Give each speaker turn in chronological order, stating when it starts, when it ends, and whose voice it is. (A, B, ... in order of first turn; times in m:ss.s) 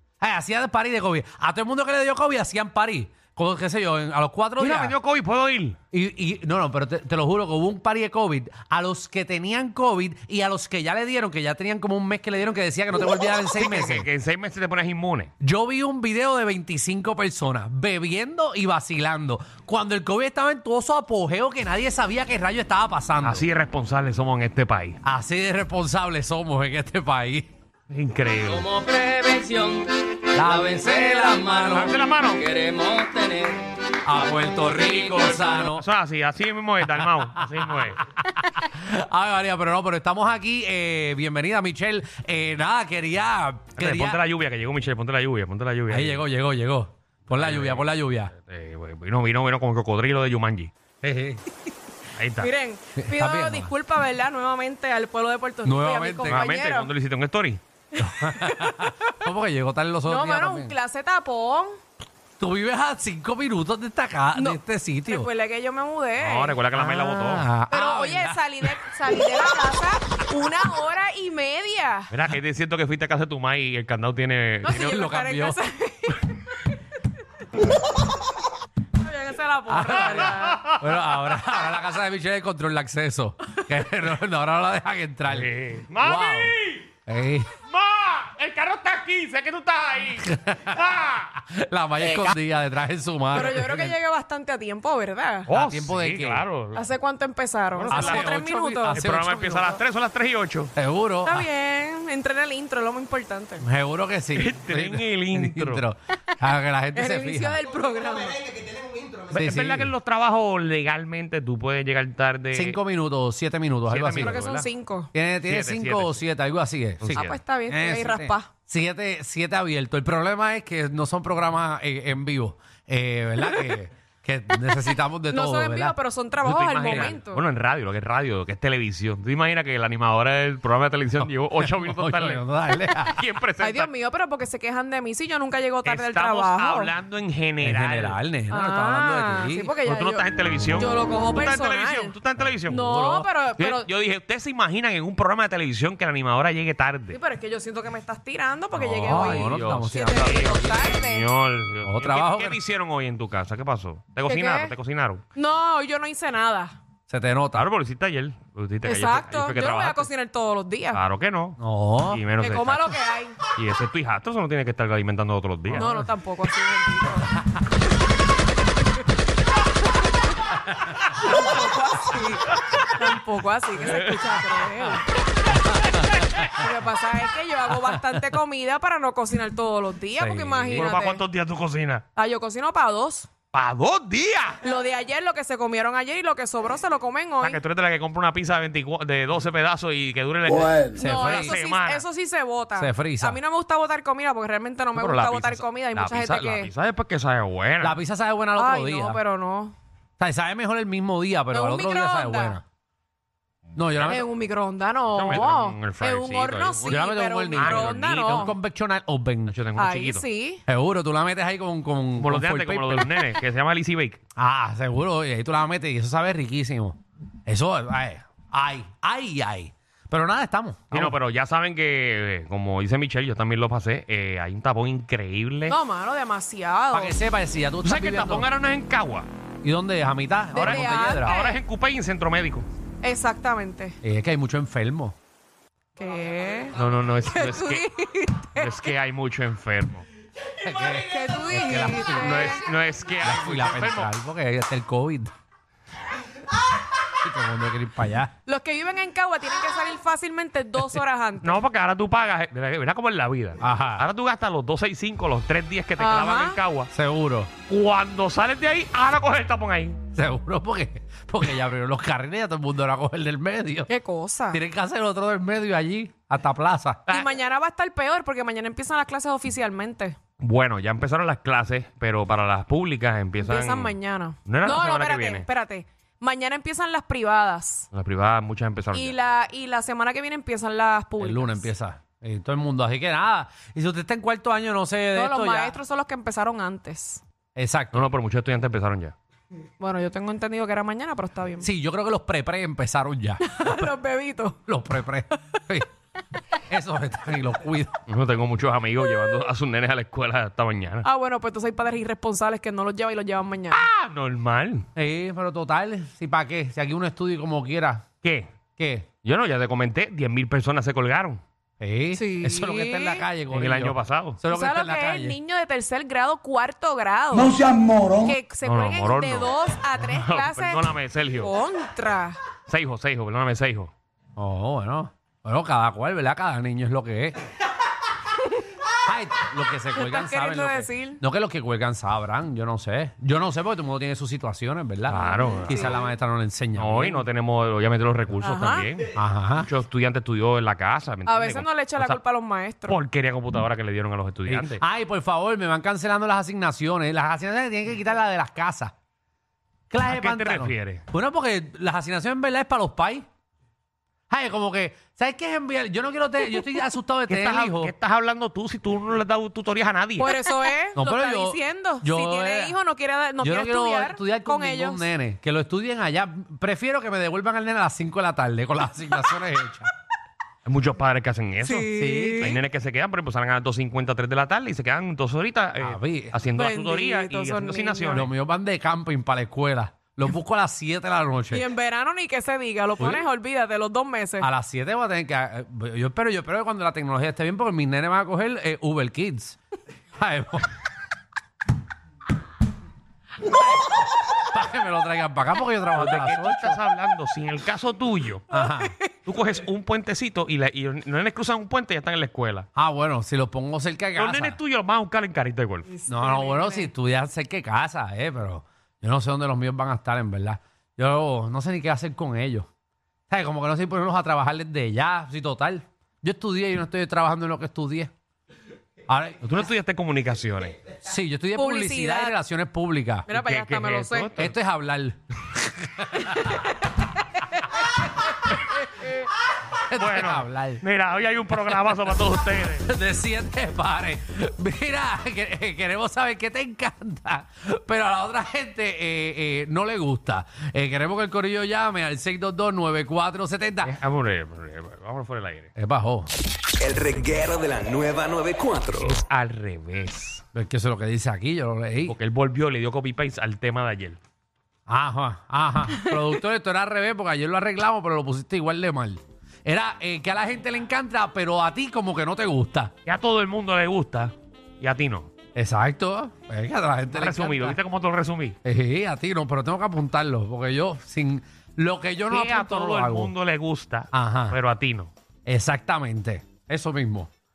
0:00.2-0:05.0 A
0:04.6-0:05.8 B
0:05.9-0:14.1 A
0:13.5-0:15.3 B
0:15.4-0:23.4 A
0:23.2-0:25.0 B
0:25.0-0:27.5 A
0:27.9-0:28.7 B
0:28.5-0:31.7 C
0:30.3-0:32.0 A
0:31.7-0:32.4 B
0:32.4-0:33.7 C
0:34.0-0:35.8 A
0:35.5-0:38.0 B
0:37.8-0:44.2 A
0:43.8-0:46.2 B
0:45.9-0:48.3 A
0:47.4-0:50.7 B
0:51.0-0:51.4 A
0:52.2-0:52.5 B
0:52.4-0:56.9 D
0:53.0-0:53.7 A
0:55.6-0:56.5 A
0:56.3-0:57.6 B
0:58.0-1:00.8 A
0:58.0-0:59.0 D
1:00.0-1:01.8 D
1:02.4-1:05.3 A
1:04.3-1:06.6 D
1:06.2-1:07.5 B
1:06.7-1:08.8 A
1:07.7-1:12.1 D
1:12.1-1:15.0 B
1:14.6-1:16.3 D
1:14.7-1:15.6 A
1:19.0-1:20.6 D
1:19.7-1:26.5 A
1:19.9-1:21.3 B
1:25.3-1:26.9 B
1:27.0-1:27.6 A
1:27.7-1:31.4 B
1:30.2-1:30.8 A
1:31.4-1:34.0 A
1:32.0-1:32.4 B
1:33.3-1:35.5 D
1:35.5-1:36.4 A
1:35.5-1:36.9 B
1:36.7-1:39.0 D
1:37.8-1:40.7 B
1:37.9-1:39.8 A
1:40.8-1:41.5 A
1:41.2-1:43.6 D
1:43.6-1:47.6 A
1:44.3-1:45.8 B
1:46.9-1:48.6 D
1:49.3-1:52.8 B
1:49.3-1:49.9 A
1:52.5-1:54.5 A
1:53.9-1:54.7 B
1:54.2-1:55.1 D
1:55.1-2:06.0 A
1:55.4-1:56.2 B
1:57.0-1:57.4 B
1:57.1-1:58.5 D
2:05.3-2:07.4 D
2:06.4-2:12.4 B
2:06.8-2:07.1 A
2:11.6-2:13.2 A
2:13.0-2:13.9 B
2:13.6-2:16.9 D
2:15.8-2:18.2 B
2:17.6-2:19.7 A
2:18.5-2:23.9 D
2:19.8-2:22.8 B
2:22.4-2:23.3 A
2:23.6-2:27.2 B
2:27.1-2:31.3 D
2:28.7-2:35.2 B
2:29.0-2:30.5 A
2:31.8-2:32.6 A
2:34.2-2:34.7 D
2:35.3-2:36.8 D
2:37.1-2:37.7 A
2:37.5-2:40.1 B
2:38.8-2:41.0 D
2:40.9-2:41.6 B
2:41.6-2:42.2 A
2:42.1-2:45.9 B
2:42.4-2:43.4 D
2:45.7-2:47.4 D
2:45.7-2:46.1 A
2:50.1-2:55.1 D
2:53.8-2:54.5 B
2:55.5-2:56.6 A
2:55.7-3:01.2 D
2:57.8-2:58.2 A
3:00.2-3:00.9 A
3:00.7-3:02.0 B
3:02.1-3:03.3 D
3:03.5-3:04.6 B
3:04.6-3:07.6 D
3:07.4-3:12.0 B
3:10.9-3:11.5 A
3:10.9-3:16.7 D
3:12.8-3:13.4 A
3:14.9-3:18.0 B
3:17.8-3:19.2 A
3:18.5-3:19.7 D
3:20.2-3:22.6 A
3:21.5-3:22.6 D
3:23.7-3:24.2 B
3:23.8-3:24.2 A
3:24.0-3:28.6 D
3:25.1-3:28.4 B
3:26.8-3:29.6 A
3:29.5-3:30.2 B
3:29.8-3:30.6 D
3:30.6-3:33.3 A
3:32.2-3:34.2 B
3:34.4-3:41.2 A
3:40.9-3:45.8 B
3:45.7-3:47.2 D
3:46.9-3:48.5 A
3:47.8-3:49.3 B
3:49.6-3:51.3 A
3:50.5-3:51.6 D
3:50.5-3:52.7 B
3:53.0-3:54.0 D
3:54.0-3:55.2 A
3:56.0-3:59.0 D
3:56.7-3:57.9 B
3:58.5-4:00.0 B
4:00.6-4:02.6 A
4:01.0-4:02.6 D
4:02.1-4:04.1 B
4:03.2-4:05.3 A
4:07.1-4:08.3 A
4:08.4-4:11.6 D
4:11.4-4:16.9 B
4:13.6-4:14.0 A
4:16.0-4:16.6 D
4:16.9-4:17.5 A
4:17.7-4:20.0 B
4:20.1-4:23.9 A
4:23.9-4:24.6 D
4:24.5-4:27.2 A
4:27.1-4:30.2 D
4:30.4-4:35.5 B
4:33.4-4:37.9 D
4:37.9-4:39.2 B
4:38.9-4:41.7 D
4:41.2-4:45.8 A
4:45.1-4:47.2 D
4:47.6-4:48.0 A
4:47.9-4:49.1 B
4:49.8-4:51.7 D
4:51.6-4:53.9 A
4:53.4-4:54.6 D
4:54.6-4:55.9 A
4:56.6-4:58.0 A
4:58.1-5:01.1 B
5:01.0-5:03.9 D
5:03.7-5:04.9 B
5:05.0-5:08.1 A
5:08.2-5:08.5 B
5:08.8-5:09.1 A
5:09.2-5:11.4 B
5:11.8-5:15.4 A
5:12.1-5:13.2 D
5:13.5-5:14.4 B
5:14.5-5:22.4 D
5:18.6-5:21.5 B
5:22.7-5:23.9 B
5:24.4-5:27.4 A
5:29.0-5:37.3 A
5:29.9-5:31.2 D
5:35.1-5:36.0 B
5:35.3-5:35.9 D
5:36.8-5:42.2 B
5:38.4-5:38.9 D
5:39.1-5:39.7 A
5:41.2-5:43.0 D
5:42.9-5:44.8 B
5:44.4-5:48.9 A
5:49.9-5:53.2 A
5:50.0-5:51.0 B
5:54.3-5:57.9 A
5:57.3-6:00.3 B
6:00.2-6:05.1 D
6:00.9-6:02.8 A
6:03.4-6:09.9 A
6:10.6-6:18.3 B
6:11.6-6:12.6 D
6:11.9-6:12.6 A
6:15.8-6:16.4 A
6:16.5-6:18.2 D
6:18.1-6:21.6 A
6:21.5-6:24.5 D
6:23.0-6:23.2 A
6:24.4-6:29.6 A
6:30.2-6:30.7 A
6:33.4-6:36.8 A
6:35.9-6:38.4 B
6:38.5-6:38.9 A
6:38.5-6:39.1 D
6:39.2-6:42.7 B
6:42.8-6:44.6 A
6:44.2-6:45.9 B
6:45.9-6:46.9 D
6:46.1-6:52.7 A
6:53.3-6:58.1 A
6:59.1-6:59.7 A
6:59.4-7:00.8 B
7:01.0-7:03.3 A
7:01.6-7:02.4 D
7:03.3-7:04.3 D
7:03.3-7:04.5 B
7:04.3-7:06.7 A
7:07.3-7:07.7 D
7:09.8-7:10.8 A
7:09.9-7:12.9 B
7:12.8-7:24.0 A
7:23.8-7:25.7 B
7:25.8-7:26.3 A
7:26.8-7:29.2 E
7:28.9-7:30.4 B
7:30.5-7:32.2 A
7:32.0-7:34.2 B
7:34.9-7:42.9 A
7:43.0-7:45.3 B
7:45.5-7:47.8 A
7:47.1-7:48.6 B
7:48.6-7:53.3 A
7:52.3-7:55.1 B
7:54.1-7:54.6 A
7:55.5-7:57.3 A